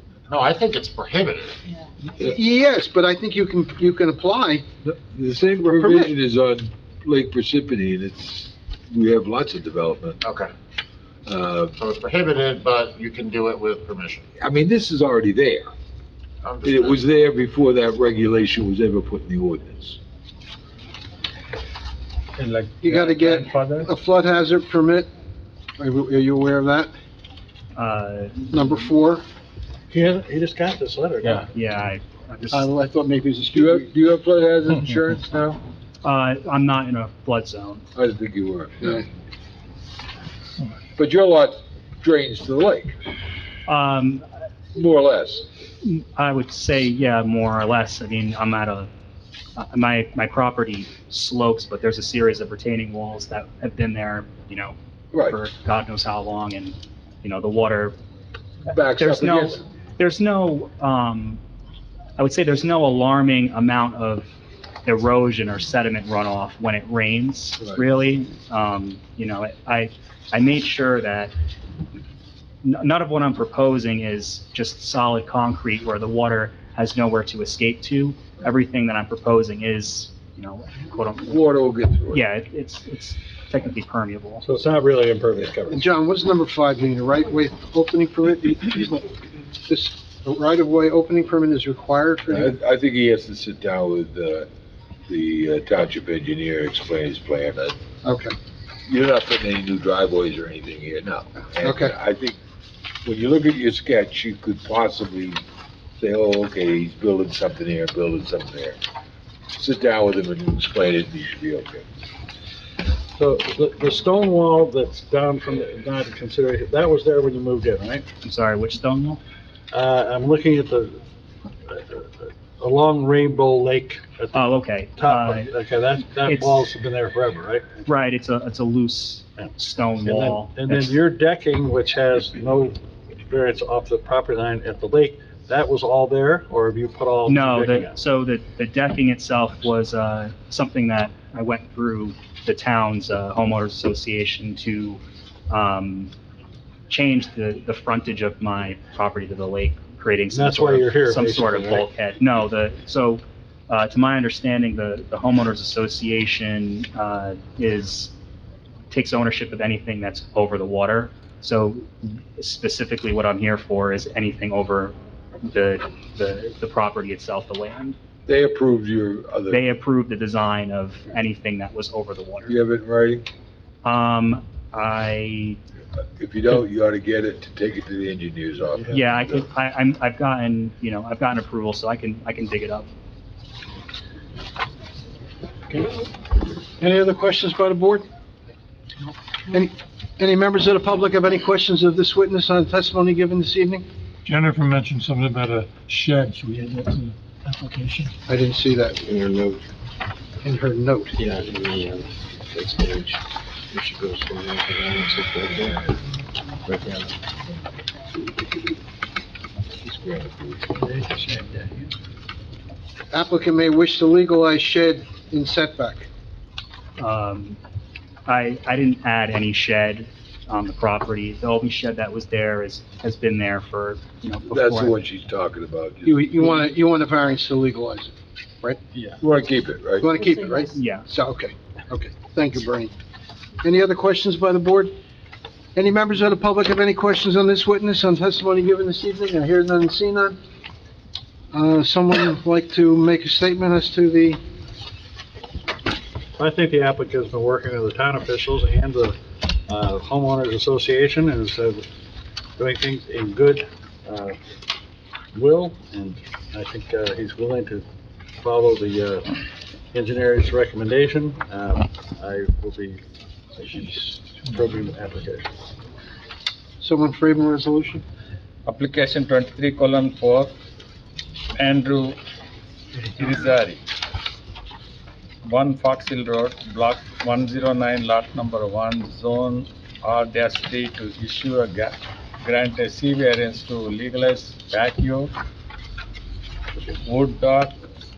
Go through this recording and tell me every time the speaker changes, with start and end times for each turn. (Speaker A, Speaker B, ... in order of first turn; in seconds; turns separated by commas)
Speaker A: 0.3-1.6, Speaker B: 2.2-4.6, Speaker C: 4.8-10.2, Speaker B: 5.6-6.1, Speaker A: 10.2-10.5, Speaker C: 11.2-11.7, Speaker A: 11.8-14.3, Speaker C: 14.4-15.7, Speaker A: 16.4-17.0, Speaker C: 16.6-20.0, Speaker D: 22.4-23.9, Speaker B: 22.8-25.1, Speaker B: 25.8-26.9, Speaker E: 27.8-28.5, Speaker B: 28.5-29.2, Speaker F: 29.9-31.5, Speaker E: 31.5-32.7, Speaker B: 32.5-33.9, Speaker C: 33.5-35.6, Speaker E: 36.0-37.9, Speaker C: 38.0-39.0, Speaker C: 41.0-43.0, Speaker E: 43.7-44.2, Speaker C: 44.7-45.5, Speaker E: 45.8-48.9, Speaker E: 49.5-57.9, Speaker C: 58.6-59.6, Speaker E: 59.0-61.4, Speaker E: 62.2-64.3, Speaker E: 64.8-71.3, Speaker E: 72.6-81.4, Speaker C: 81.3-82.2, Speaker E: 82.1-84.4, Speaker F: 84.4-85.9, Speaker B: 85.7-89.1, Speaker B: 89.7-92.5, Speaker C: 92.3-94.5, Speaker C: 95.1-97.7, Speaker B: 98.0-98.3, Speaker C: 98.9-102.4, Speaker B: 101.6-101.9, Speaker C: 103.0-105.4, Speaker C: 106.0-108.8, Speaker C: 109.5-111.8, Speaker F: 113.1-118.1, Speaker E: 118.2-119.2, Speaker F: 119.7-121.0, Speaker F: 121.6-127.8, Speaker E: 124.3-125.5, Speaker E: 126.1-126.7, Speaker E: 127.8-131.0, Speaker F: 130.0-138.0, Speaker E: 137.2-146.1, Speaker E: 146.9-158.1, Speaker F: 150.3-151.8, Speaker E: 158.9-168.0, Speaker C: 168.3-169.6, Speaker E: 169.5-172.6, Speaker C: 172.4-173.2, Speaker E: 173.8-175.6, Speaker C: 176.2-179.4, Speaker E: 178.9-182.9, Speaker B: 186.8-188.1, Speaker B: 189.5-193.8, Speaker G: 194.2-198.1, Speaker B: 198.3-199.1, Speaker H: 199.1-199.6, Speaker B: 200.4-201.2, Speaker H: 201.2-203.1, Speaker H: 203.7-205.8, Speaker H: 206.7-207.1, Speaker C: 209.8-210.9, Speaker B: 213.1-216.1, Speaker E: 217.0-217.6, Speaker E: 218.2-225.0, Speaker C: 224.5-226.5, Speaker B: 226.0-228.8, Speaker C: 229.2-230.1, Speaker B: 230.0-232.9, Speaker E: 230.7-231.1, Speaker B: 233.6-234.9, Speaker B: 235.7-240.4, Speaker B: 241.5-244.4, Speaker F: 246.4-251.9, Speaker F: 252.6-254.4, Speaker F: 255.3-257.9, Speaker F: 258.4-265.5, Speaker B: 266.8-268.0, Speaker D: 268.6-270.5, Speaker D: 271.6-272.2, Speaker D: 273.1-273.8, Speaker D: 275.4-285.3, Speaker D: 287.0-287.7